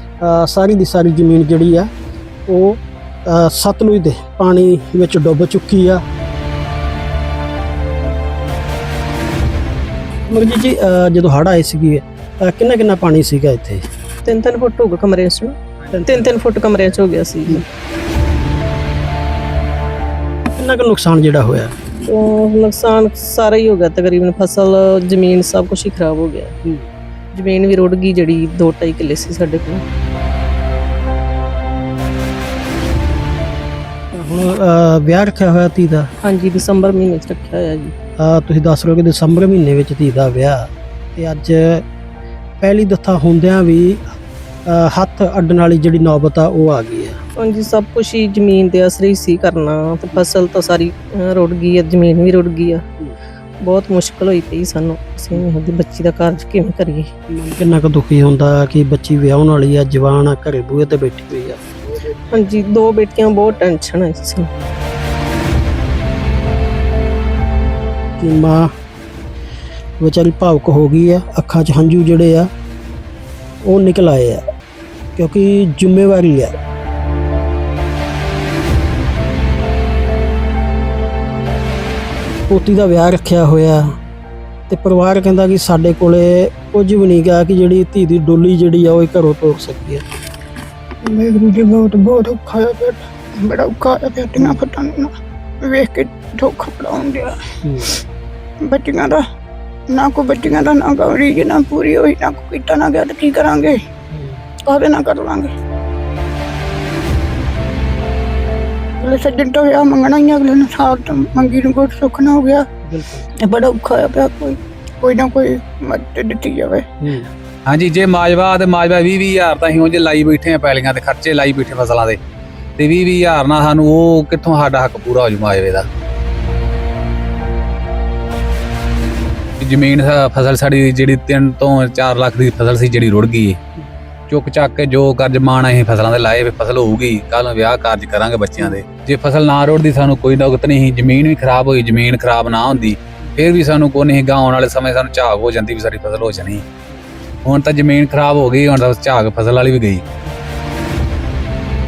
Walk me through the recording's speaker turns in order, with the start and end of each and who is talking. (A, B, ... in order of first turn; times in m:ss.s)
0:00.2-0:01.9 A
0:02.5-0:06.0 A
0:10.3-0:13.8 A
0:14.2-0:17.6 B
0:15.9-0:16.4 A
0:20.6-0:21.7 A
0:22.0-0:26.5 B
0:27.3-0:29.8 B
0:34.1-0:36.1 A
0:36.2-0:37.9 B
0:38.2-0:41.8 A
0:42.6-0:44.0 A
0:44.6-0:47.2 A
0:47.4-0:52.8 B
0:53.6-0:57.1 B
0:57.3-1:01.6 A
1:02.2-1:04.5 B
1:08.2-1:08.7 A
1:10.0-1:12.5 A
1:13.6-1:14.4 A
1:15.2-1:16.5 A
1:22.5-1:23.9 A
1:24.7-1:30.0 A
1:31.0-1:37.4 C
1:37.6-1:37.9 A
1:38.6-1:39.2 C
1:39.9-1:43.8 C
1:44.1-1:44.4 A
1:44.6-1:45.5 C
1:49.0-1:52.7 C
1:52.8-1:53.3 A
1:53.4-1:56.8 C
1:57.0-1:57.3 A
1:57.7-2:02.2 D
2:02.8-2:05.9 D
2:09.6-2:13.6 D
2:14.3-2:26.6 D
2:27.4-2:30.0 D